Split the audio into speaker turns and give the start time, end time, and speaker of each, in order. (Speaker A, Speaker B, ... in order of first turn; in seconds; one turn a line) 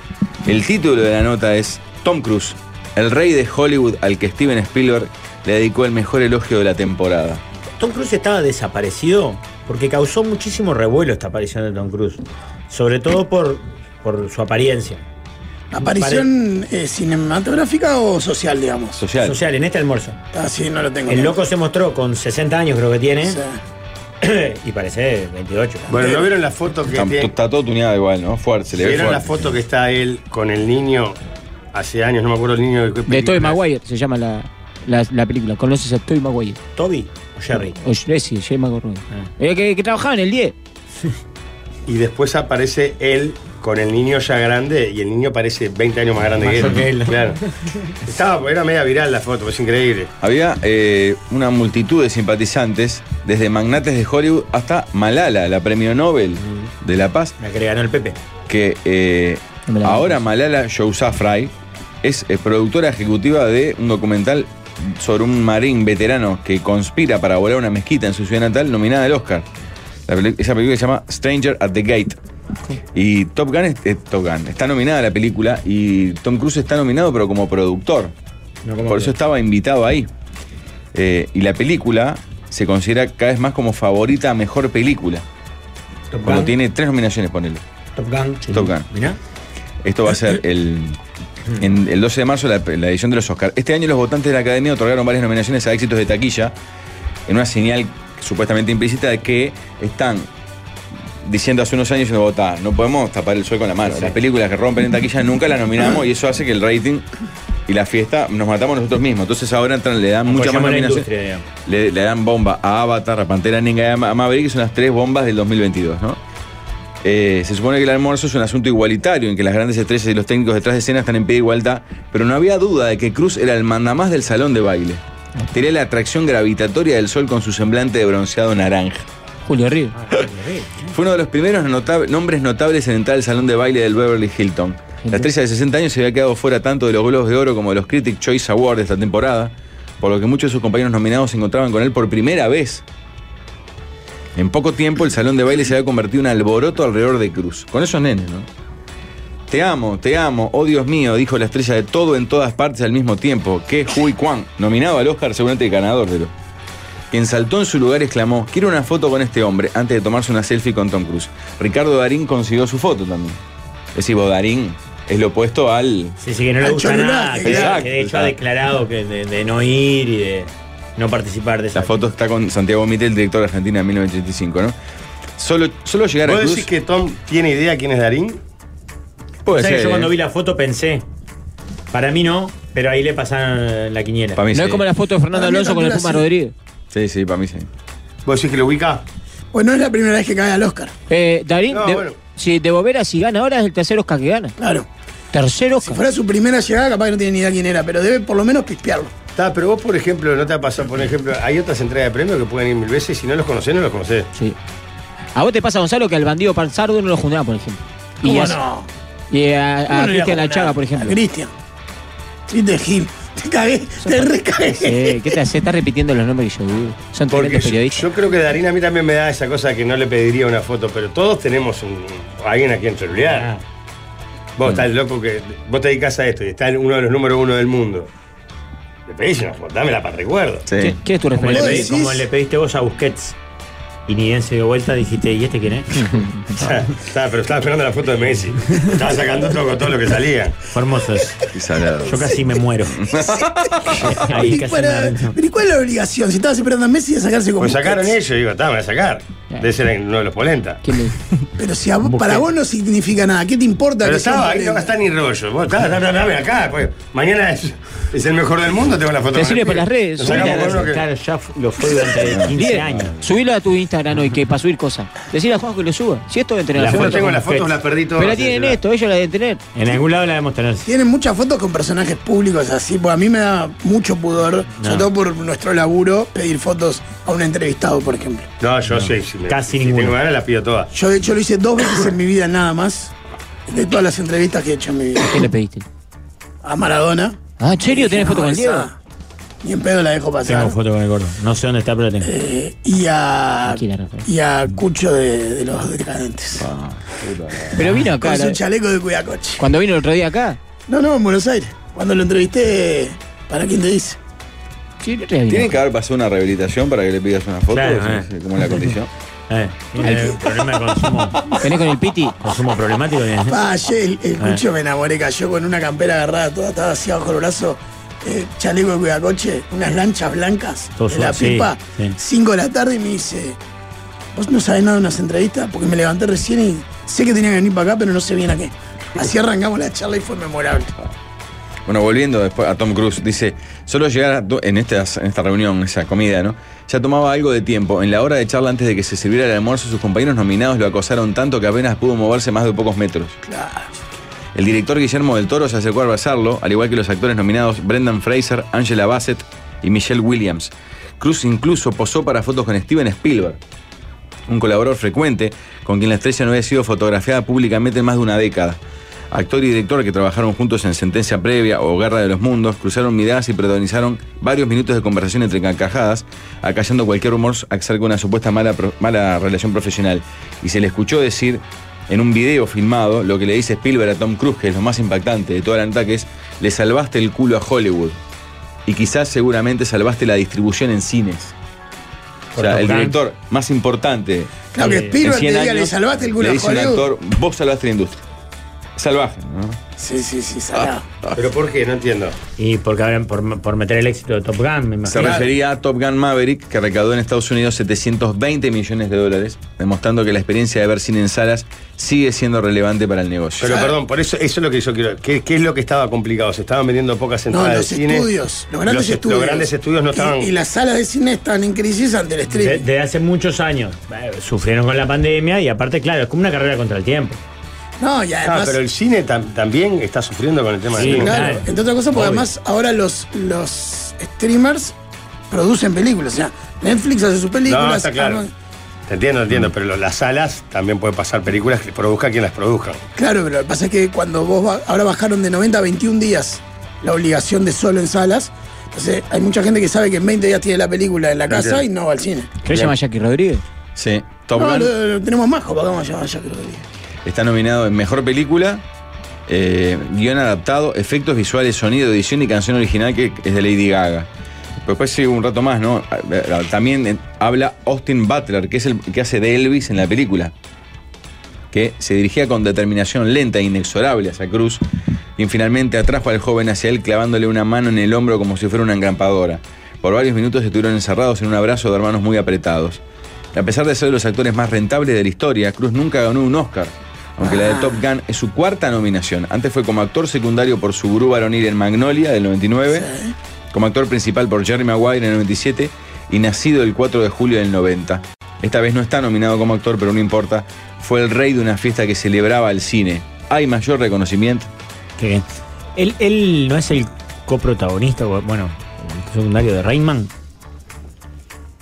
Speaker A: 0.5-7.4
Speaker B: 7.8-15.0
Speaker C: 15.7-19.0
Speaker B: 15.8-16.3
Speaker A: 19.0-19.4
Speaker B: 19.2-20.2
Speaker C: 20.3-21.4
Speaker B: 21.1-23.4
Speaker C: 23.2-23.6
Speaker B: 24.2-25.9
Speaker D: 25.9-27.3
Speaker C: 25.9-26.3
Speaker A: 26.9-29.3
Speaker D: 28.7-31.2
Speaker D: 31.7-33.6
Speaker E: 33.1-36.6
Speaker B: 36.8-37.8
Speaker E: 37.8-40.5
Speaker D: 41.9-47.4
Speaker B: 46.4-47.4
Speaker D: 48.0-50.1
Speaker A: 50.2-57.3
Speaker B: 56.4-56.7
Speaker B: 57.4-58.2
Speaker A: 58.5-69.4
Speaker E: 59.7-60.1
Speaker A: 70.1-72.2
Speaker A: 72.9-78.1
Speaker B: 78.6-79.2
Speaker A: 78.8-80.1
Speaker A: 80.9-85.2
Speaker B: 86.1-86.5
Speaker A: 86.2-87.6
Speaker B: 88.0-89.2
Speaker A: 88.5-88.9
Speaker A: 89.8-91.0
Speaker A: 91.6-96.5
Speaker A: 97.3-100.3
Speaker A: 101.2-107.0
Speaker B: 103.8-104.2
Speaker A: 107.7-111.1
Speaker B: 110.3-111.4
Speaker A: 111.6-116.2
Speaker A: 117.0-125.0
Speaker A: 125.5-129.1
Speaker E: 129.4-129.9
Speaker B: 129.9-130.9
Speaker A: 130.9-142.8
Speaker E: 135.0-135.3
Speaker A: 144.3-148.5
Speaker A: 149.5-156.3
Speaker A: 157.1-163.4
Speaker A: 163.9-166.1
Speaker B: 166.2-172.0
Speaker C: 166.6-167.8
Speaker A: 167.4-168.3
Speaker A: 171.7-174.7
Speaker A: 175.4-176.7
Speaker D: 176.2-178.4
Speaker A: 179.4-180.1
Speaker B: 179.5-181.0
Speaker B: 181.9-184.4
Speaker A: 184.4-184.9
Speaker E: 184.5-186.5
Speaker C: 185.3-186.3
Speaker A: 186.9-187.7
Speaker D: 188.2-189.0
Speaker C: 189.5-190.9
Speaker E: 191.1-194.5
Speaker D: 191.7-192.2
Speaker C: 194.6-194.9
Speaker E: 195.3-196.0
Speaker C: 195.8-199.1
Speaker D: 199.3-204.3
Speaker E: 205.3-208.6
Speaker C: 208.2-208.9
Speaker E: 209.3-211.2
Speaker C: 209.9-211.5
Speaker C: 212.5-215.4
Speaker E: 214.0-214.3
Speaker E: 214.8-218.1
Speaker D: 217.3-223.5
Speaker B: 223.3-223.6
Speaker D: 224.6-228.1
Speaker D: 229.1-230.7
Speaker A: 230.7-231.0
Speaker E: 230.8-231.9
Speaker B: 231.3-233.3
Speaker C: 231.5-232.3
Speaker B: 234.1-236.1
Speaker D: 236.5-240.6
Speaker B: 240.7-241.4
Speaker A: 241.5-242.3
Speaker B: 242.0-243.0
Speaker A: 243.0-244.2
Speaker C: 243.1-248.2
Speaker B: 244.1-245.3
Speaker D: 247.6-250.8
Speaker E: 250.8-251.1
Speaker C: 251.6-254.9
Speaker B: 252.0-252.4
Speaker D: 254.0-261.0
Speaker E: 259.3-260.8
Speaker B: 260.2-263.2
Speaker E: 262.5-267.4
Speaker D: 266.7-268.8
Speaker B: 266.8-267.7
Speaker E: 268.1-269.6
Speaker B: 269.7-270.9
Speaker C: 270.8-278.5
Speaker B: 274.8-275.1
Speaker D: 278.6-280.9
Speaker B: 278.9-280.2
Speaker C: 280.9-283.1
Speaker C: 283.7-285.5
Speaker E: 285.2-285.8
Speaker C: 286.6-288.9
Speaker E: 287.6-288.9
Speaker C: 289.6-290.8
Speaker B: 290.4-292.3
Speaker C: 292.2-296.6
Speaker E: 293.7-294.2
Speaker A: 296.6-297.8
Speaker E: 297.7-298.6
Speaker C: 298.2-299.7
Speaker E: 299.6-300.6
Speaker C: 300.9-304.2
Speaker E: 305.0-305.8
Speaker A: 305.5-309.1
Speaker B: 307.7-308.3
Speaker B: 309.5-311.4
Speaker E: 310.0-310.4
Speaker E: 311.6-312.4
Speaker B: 312.4-313.6
Speaker C: 313.4-323.6
Speaker B: 321.0-322.1
Speaker C: 324.3-330.9
Speaker A: 331.9-343.4
Speaker C: 343.5-343.9
Speaker A: 344.5-353.6
Speaker A: 354.5-358.8
Speaker A: 359.3-378.2
Speaker A: 378.9-381.5
Speaker B: 382.5-383.2
Speaker A: 382.6-384.7
Speaker C: 384.7-387.1
Speaker B: 384.8-385.2
Speaker A: 385.2-388.2
Speaker A: 388.9-389.8
Speaker C: 390.0-391.1
Speaker D: 391.4-392.4
Speaker B: 392.6-395.4
Speaker A: 395.0-403.7
Speaker D: 403.6-408.3
Speaker C: 403.6-403.9
Speaker C: 407.5-412.9
Speaker D: 408.8-410.5
Speaker B: 412.5-417.4
Speaker C: 418.0-418.8
Speaker D: 418.4-421.5
Speaker B: 420.9-422.4
Speaker C: 421.0-424.9
Speaker C: 425.5-428.5
Speaker D: 427.6-428.4
Speaker D: 429.1-433.0
Speaker C: 433.1-442.5
Speaker D: 441.5-441.8
Speaker E: 442.6-443.6
Speaker A: 443.9-444.9
Speaker C: 444.5-446.8
Speaker A: 447.2-448.8
Speaker A: 449.5-454.3
Speaker A: 454.8-460.5
Speaker A: 461.7-464.8
Speaker A: 465.4-473.0
Speaker A: 473.5-483.1
Speaker C: 477.4-478.0
Speaker C: 482.9-483.3
Speaker A: 483.7-494.7
Speaker B: 495.2-495.4
Speaker B: 495.9-500.3